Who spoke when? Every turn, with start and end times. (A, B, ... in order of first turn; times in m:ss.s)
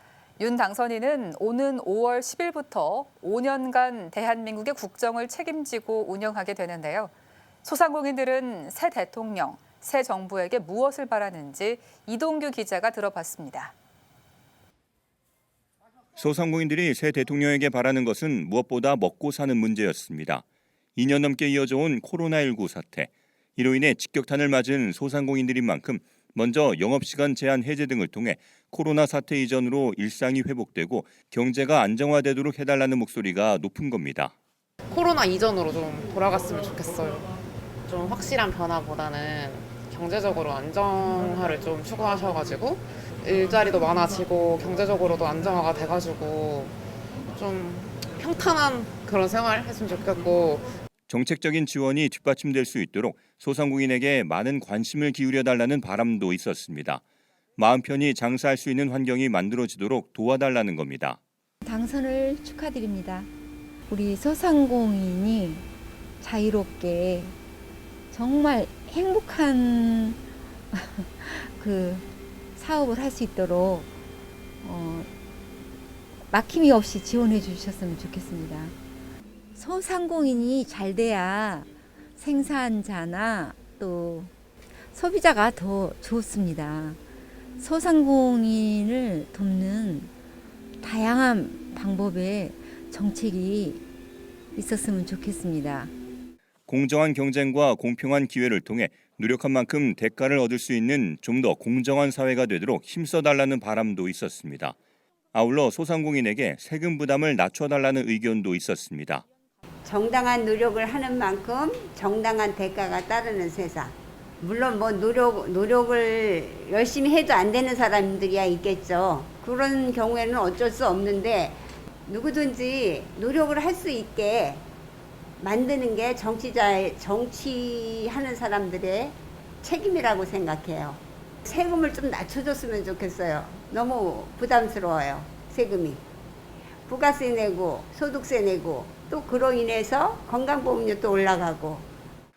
0:00.4-0:13.7 A
0:16.2-0:20.4 B
0:21.0-0:34.3 B
0:34.9-0:37.3 C
0:37.8-0:46.8 C
0:47.3-0:50.7 C
0:51.1-0:57.0 B
0:57.6-1:01.2 B
1:01.6-1:03.3 D
1:03.9-1:05.6 D
1:06.2-1:07.3 D
1:08.1-1:10.2 D
1:10.7-1:13.9 D
1:14.6-1:15.1 D
1:16.3-1:18.7 D
1:19.5-1:24.3 D
1:24.9-1:27.0 D
1:27.6-1:30.1 D
1:30.8-1:33.8 D
1:34.5-1:35.9 D
1:36.7-1:44.7 B
1:45.3-1:49.2 B
1:49.8-2:04.6 E
2:05.4-2:16.0 E
2:16.9-2:21.8 E